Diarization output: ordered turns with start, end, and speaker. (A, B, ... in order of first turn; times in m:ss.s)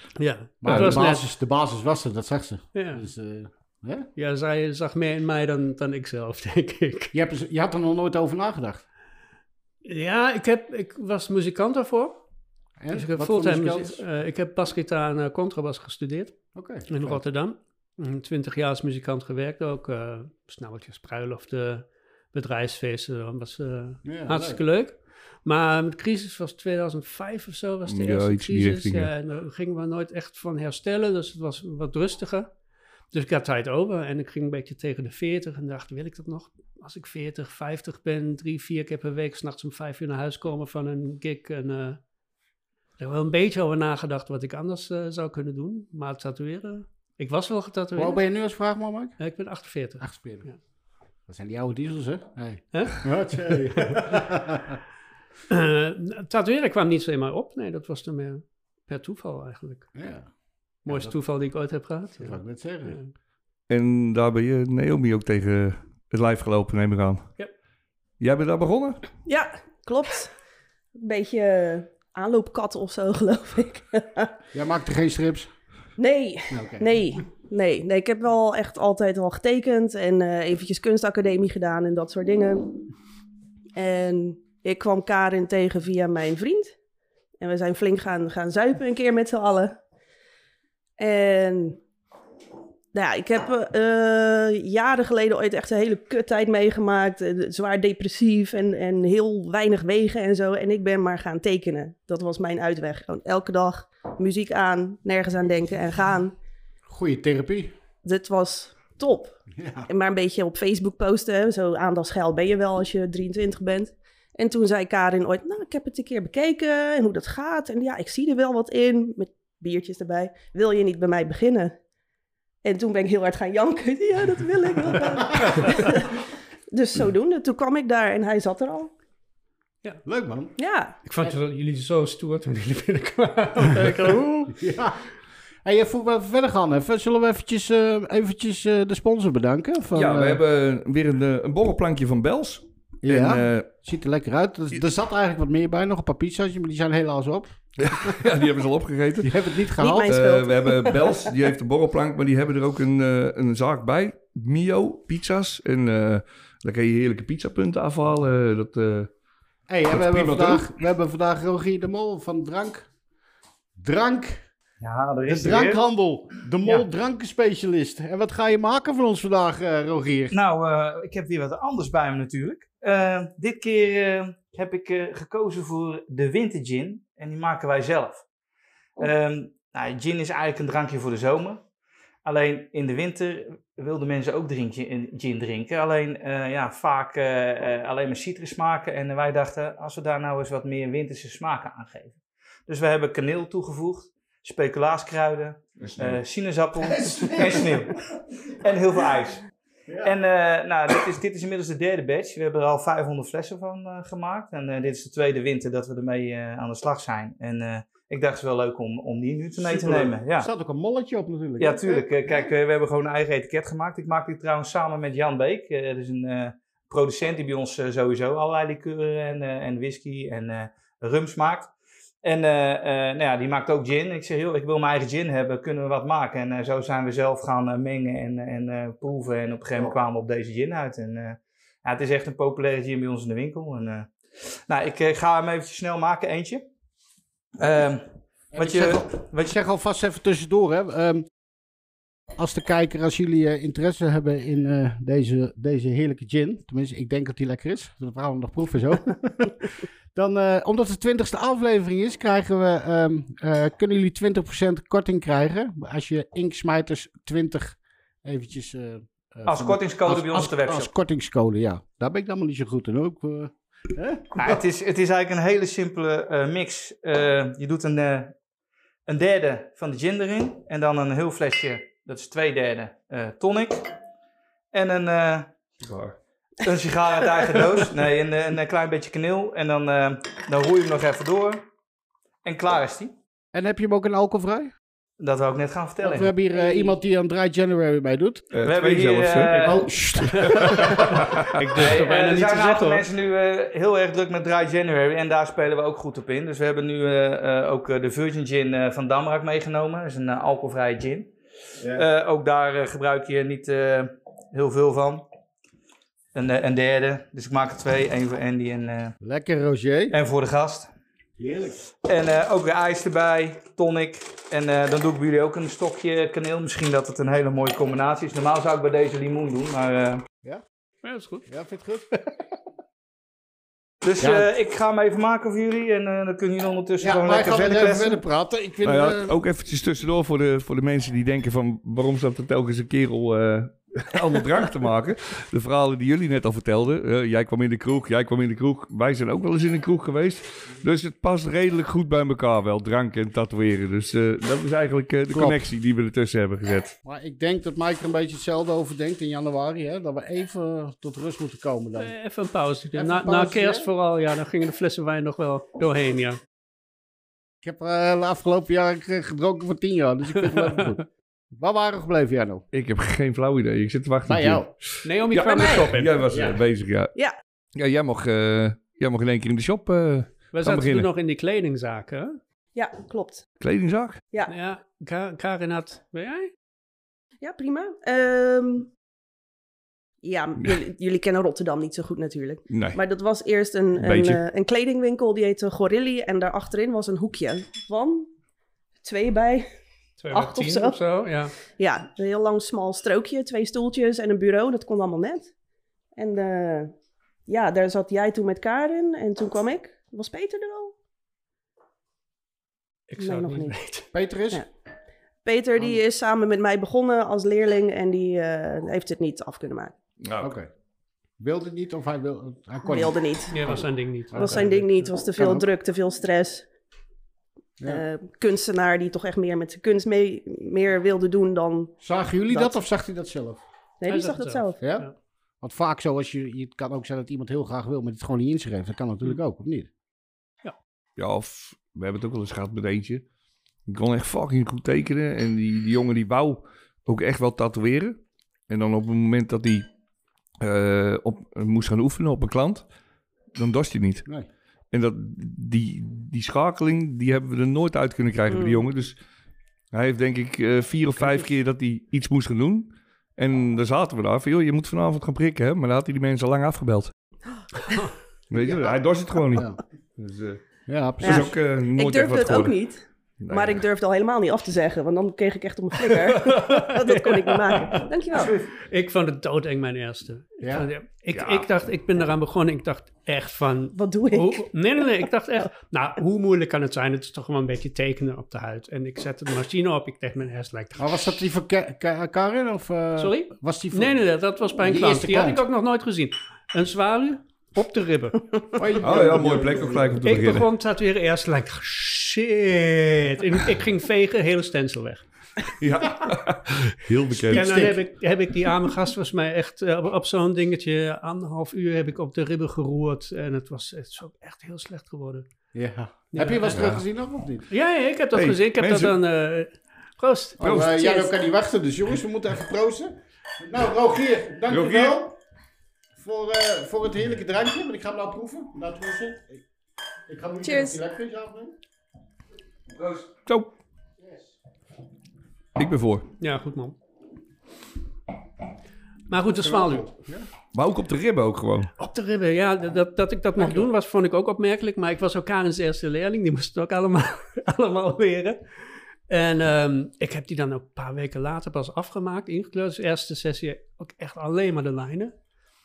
0:00.2-0:01.2 A
0:00.6-0:04.1 B
0:00.7-0:01.0 C
0:02.7-0:03.0 A
0:04.2-0:07.1 A
0:07.1-0:08.8 B
0:09.8-0:12.2 A
0:12.8-0:14.0 B
0:12.9-0:16.4 A
0:16.6-0:17.2 B
0:16.9-0:32.5 A
0:24.0-0:24.6 B
0:27.9-0:29.1 C
0:33.1-0:42.0 A
0:43.0-0:48.2 A
0:48.0-0:49.2 B
0:49.2-0:50.6 A
0:50.0-0:50.5 B
0:51.3-0:54.8 B
0:52.7-0:53.1 A
0:55.5-0:59.9 A
1:00.0-1:00.3 B
1:00.8-1:01.1 B
1:00.9-1:03.1 A
1:02.2-1:03.0 B
1:03.7-1:07.3 C
1:08.2-1:09.0 C
1:09.3-1:10.3 D
1:11.0-1:14.4 D
1:14.5-1:15.5 B
1:16.0-1:22.8 D
1:16.5-1:16.9 B
1:23.8-1:26.8 D
1:27.4-1:29.8 D
1:31.0-1:31.8 D
1:32.9-1:46.4 D
1:46.9-1:47.7 B
1:48.0-2:01.7 D
1:49.5-1:49.9 B
2:02.6-2:08.9 D
2:10.0-2:10.6 B
2:10.6-2:11.0 D
2:11.0-2:14.6 A
2:14.5-2:15.0 B
2:15.6-2:20.4 B
2:19.9-2:23.7 C
2:23.0-2:28.2 B
2:27.8-2:29.3 C
2:29.2-2:30.2 B
2:29.8-2:31.2 D
2:30.0-2:39.1 C
2:39.7-2:42.9 B
2:39.9-2:40.7 C
2:43.8-2:44.5 B
2:44.8-2:45.8 E
2:45.3-2:50.4 B
2:50.3-2:58.2 E
2:59.0-3:01.6 E
3:02.2-3:19.4 E
3:15.8-3:16.2 C
3:17.0-3:17.6 B
3:19.9-3:20.1 B
3:20.0-3:30.5 E
3:29.6-3:32.5 B
3:31.6-3:41.7 E
3:42.2-3:54.1 E
3:54.7-3:56.6 E
3:57.6-3:59.6 E
3:58.5-4:01.3 B
4:02.4-4:24.6 B
4:19.5-4:20.9 E
4:24.4-4:28.3 E
4:29.1-4:33.9 E
4:34.7-4:35.5 E
4:35.8-4:36.2 C
4:36.6-4:41.6 E
4:42.4-4:43.1 E
4:43.5-4:44.7 B
4:45.2-4:46.3 E
4:46.0-4:48.4 B
4:48.5-4:49.7 C
4:48.6-4:49.8 E
4:49.6-4:51.0 B
4:50.1-4:53.1 A
4:50.4-4:51.8 C
4:51.8-5:01.3 E
5:01.8-5:02.1 B
5:01.9-5:05.2 E
5:06.4-5:09.1 E
5:09.2-5:10.2 B
5:10.1-5:10.9 E
5:11.4-5:11.8 B
5:12.0-5:20.2 E
5:21.0-5:21.5 A
5:21.5-5:22.1 B
5:24.0-5:28.2 E
5:24.2-5:24.5 B
5:27.0-5:29.4 B
5:28.8-5:46.9 C
5:45.3-5:45.6 B
5:47.0-5:52.1 B
5:52.0-5:56.4 A
5:53.0-5:53.9 B
5:57.6-6:02.6 B
6:02.7-6:07.1 C
6:04.3-6:04.7 B
6:05.0-6:06.3 A
6:05.4-6:05.9 D
6:06.3-6:06.6 B
6:07.8-6:11.1 C
6:10.5-6:12.4 A
6:12.8-6:13.5 D
6:13.6-6:14.2 C
6:14.5-6:16.5 A
6:17.4-6:18.9 D
6:20.2-6:28.3 D
6:22.7-6:23.0 C
6:24.0-6:24.4 C
6:29.0-6:29.7 D
6:30.2-6:31.5 A
6:30.3-6:31.0 D
6:31.8-6:35.5 D
6:36.2-6:36.9 D
6:37.5-6:40.9 D
6:43.1-6:44.1 A
6:43.2-6:43.7 D
6:44.1-6:44.6 B
6:45.4-6:49.9 D
6:50.2-6:50.5 C
6:50.4-6:50.7 B
6:51.4-6:53.8 B
6:52.9-6:53.7 D
6:53.5-6:55.1 A
6:54.3-6:54.7 B
6:54.4-6:56.7 D
6:55.4-6:55.7 B
6:57.8-6:58.0 B
6:57.9-7:01.9 D
7:02.0-7:03.6 B
7:04.0-7:04.8 D
7:04.1-7:05.1 A
7:04.8-7:05.1 B
7:05.6-7:09.9 B
7:11.2-7:13.2 C
7:13.9-7:19.9 C
7:20.6-7:22.9 C
7:23.6-7:24.2 C
7:24.9-7:29.2 C
7:29.9-7:37.1 C
7:38.5-7:40.6 C
7:40.9-7:41.6 B
7:41.2-7:42.8 C
7:41.2-7:48.6 D
7:43.4-7:43.8 C
7:46.4-8:01.3 A
7:50.6-7:50.9 B
7:51.3-7:51.7 C
7:54.0-7:54.7 D
8:01.0-8:04.2 B
8:03.2-8:08.5 A
8:04.8-8:05.6 B
8:08.8-8:10.2 B
8:09.0-8:10.7 C
8:10.2-8:15.2 A
8:15.8-8:17.9 C
8:17.3-8:18.0 B
8:17.5-8:25.5 A
8:25.7-8:27.7 B
8:26.3-8:27.0 A
8:26.7-8:27.0 C
8:27.7-8:31.3 A
8:28.3-8:29.2 C
8:30.6-8:35.4 B
8:30.6-8:31.0 C
8:34.7-8:35.2 C
8:36.2-8:39.6 B
8:40.3-8:41.8 B
8:40.6-8:41.0 D
8:43.0-8:43.7 C
8:45.8-8:46.3 C
8:46.4-8:47.0 A
8:49.3-8:50.1 A
8:49.5-8:50.5 B
8:50.7-8:51.9 C
8:52.0-9:05.3 A